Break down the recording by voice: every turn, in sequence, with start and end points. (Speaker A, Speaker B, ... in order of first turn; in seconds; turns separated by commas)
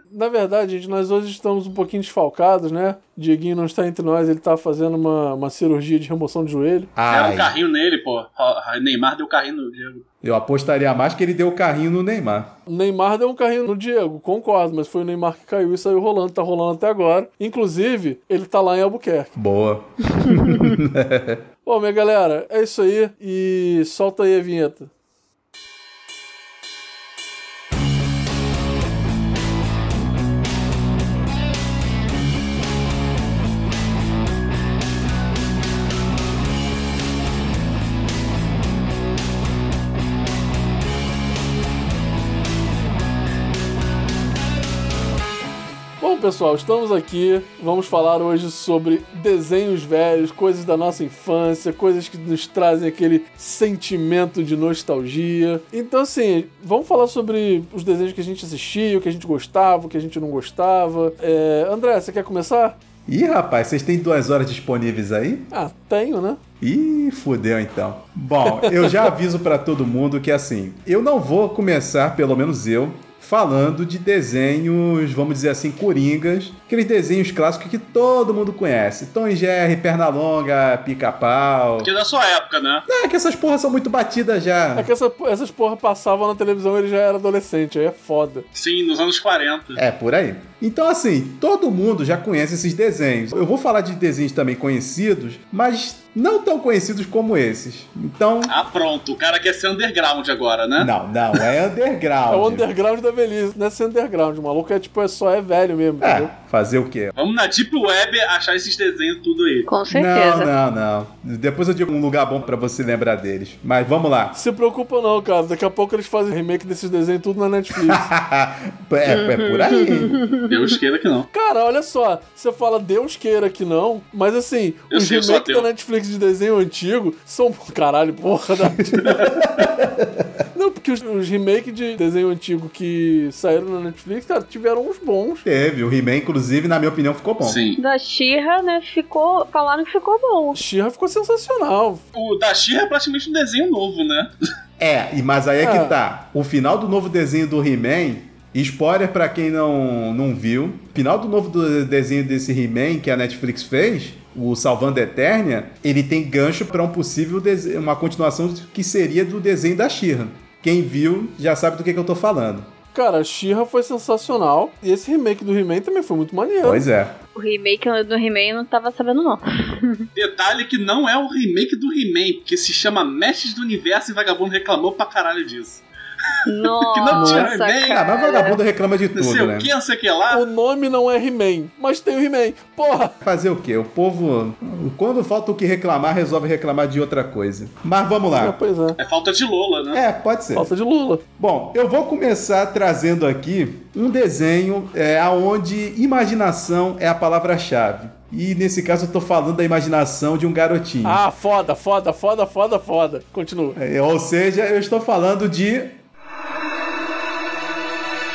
Speaker A: 0.1-6.9, Speaker B: 7.0-7.5, Speaker C: 7.1-10.0, Speaker B: 10.2-12.5, Speaker A: 12.7-19.3, Speaker B: 19.4-21.4, Speaker A: 21.6-24.9, Speaker A: 46.0-62.8, Speaker B: 63.1-65.5, Speaker A: 65.5-66.4, Speaker B: 66.6-81.9, Speaker A: 68.5-69.1, Speaker C: 81.8-82.9, Speaker B: 82.9-84.9, Speaker A: 84.8-88.5, Speaker C: 88.5-89.8, Speaker B: 89.8-98.5, Speaker C: 98.5-101.4, Speaker B: 100.8-102.7, Speaker A: 102.3-106.3, Speaker B: 106.0-107.1, Speaker C: 107.2-109.7, Speaker D: 109.7-110.5, Speaker B: 109.9-114.4, Speaker A: 114.3-118.0, Speaker B: 117.8-120.2, Speaker D: 119.1-120.6, Speaker C: 120.5-121.3, Speaker A: 121.3-129.2, Speaker C: 124.9-125.7, Speaker B: 129.1-130.2, Speaker A: 130.5-135.4, Speaker B: 135.4-137.6, Speaker C: 137.4-137.8, Speaker D: 137.8-140.6, Speaker A: 140.5-142.0, Speaker C: 142.1-144.3, Speaker B: 144.8-162.7, Speaker A: 145.6-146.0, Speaker A: 162.9-166.9, Speaker B: 166.6-167.2, Speaker D: 167.3-170.1, Speaker C: 170.2-175.8, Speaker D: 176.5-178.6, Speaker C: 176.6-178.0, Speaker A: 177.1-177.5, Speaker B: 177.9-179.7, Speaker C: 179.2-180.4, Speaker A: 180.3-183.1, Speaker B: 183.2-188.6, Speaker A: 188.4-189.0, Speaker C: 189.0-190.0, Speaker B: 189.9-190.7, Speaker A: 190.5-191.2, Speaker B: 191.4-201.2, Speaker A: 201.0-203.8, Speaker B: 203.8-206.0